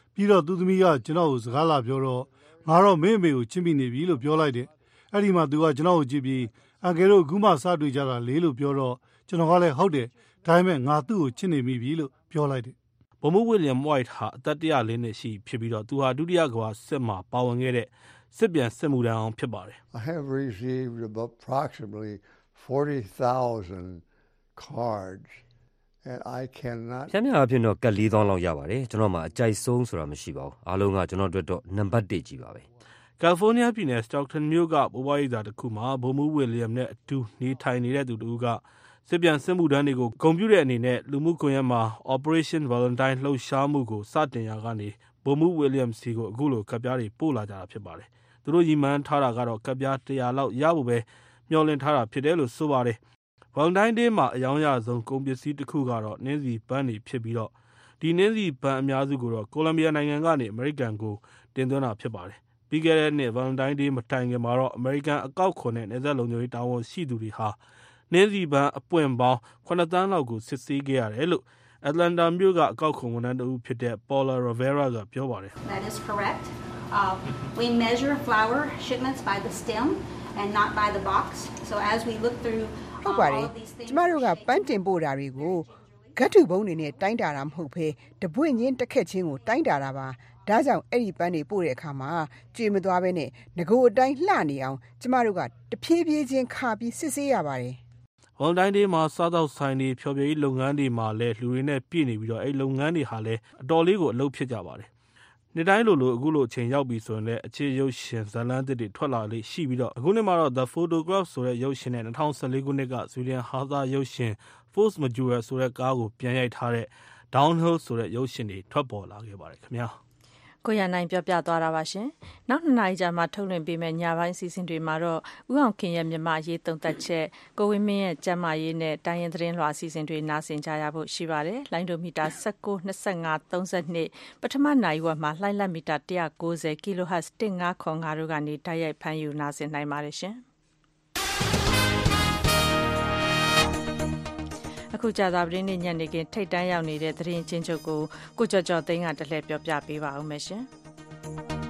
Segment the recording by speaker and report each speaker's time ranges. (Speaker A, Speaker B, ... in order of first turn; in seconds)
Speaker A: 0.1-12.7
Speaker B: 13.2-19.8, 33.2-53.0, 53.5-67.6, 68.1-75.5, 98.4-104.9, 105.5-120.0
Speaker C: 19.9-24.0, 24.6-25.4, 26.0-27.1
Speaker D: 27.1-32.6
Speaker E: 75.6-84.3
Speaker F: 83.0-97.8
Speaker G: 120.6-140.4, 144.9-150.7